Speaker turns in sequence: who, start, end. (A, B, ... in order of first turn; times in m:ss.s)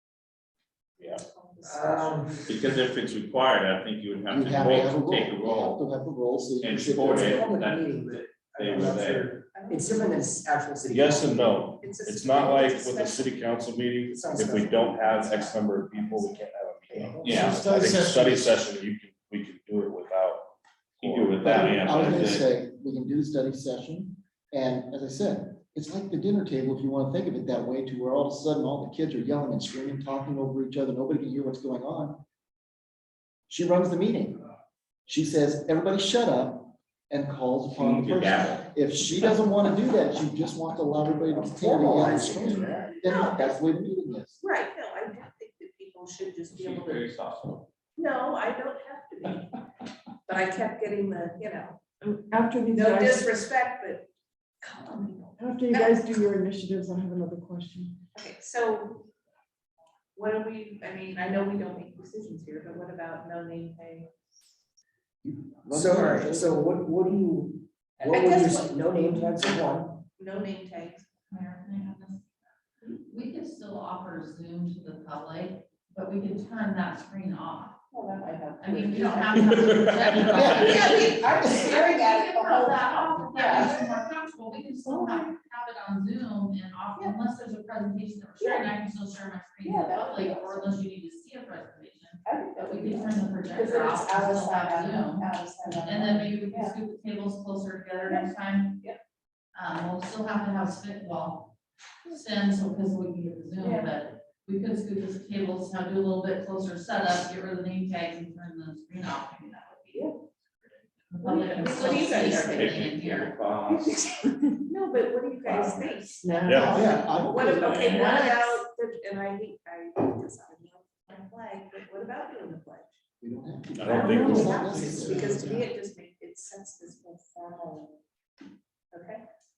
0:01.0-0:02.5 A
0:01.6-0:02.4 B
0:02.5-0:05.8 C
0:04.3-0:07.5 D
0:06.6-0:09.3 C
0:07.0-0:11.6 B
0:09.5-0:10.2 A
0:10.9-0:21.7 E
0:11.8-0:13.4 A
0:14.1-0:15.5 B
0:15.9-0:16.4 A
0:16.9-0:17.5 B
0:17.2-0:18.5 D
0:17.2-0:17.6 C
0:21.0-0:22.4 C
0:21.4-0:32.2 D
0:33.5-0:34.4 D
0:35.0-0:44.4 D
0:37.7-0:38.6 C
0:41.3-0:42.9 B
0:43.0-0:43.6 A
0:44.4-0:47.0 A
0:46.5-0:47.7 C
0:48.0-0:49.6 A
0:50.3-0:51.8 A
0:52.0-0:53.2 F
0:52.7-0:54.1 A
0:54.6-0:56.1 A
0:55.4-0:58.0 F
0:58.1-0:59.0 A
1:00.2-1:04.1 A
1:05.2-1:06.6 D
1:05.7-1:10.0 B
1:08.0-1:08.7 A
1:10.2-1:11.1 A
1:11.3-1:12.2 G
1:12.9-1:17.8 G
1:17.9-1:23.9 A
1:18.6-1:35.3 G
1:19.5-1:20.2 E
1:20.3-1:21.7 D
1:24.8-1:25.3 A
1:28.4-1:28.7 A
1:29.6-1:30.8 A
1:32.2-1:36.8 A
1:35.8-1:38.8 G
1:38.0-1:38.9 A
1:39.5-1:41.5 G
1:42.1-1:50.1 G
1:43.6-1:43.9 A
1:51.1-1:53.3 G
1:51.2-2:03.0 A
1:51.6-1:54.0 C
1:55.4-1:56.0 C
1:56.2-1:56.7 G
1:56.4-1:56.8 E
1:56.5-1:58.0 D
1:57.5-1:58.4 C
2:03.2-2:05.7 D
2:03.8-2:04.6 E
2:03.9-2:07.9 A
2:05.1-2:05.5 B
2:08.9-2:09.2 A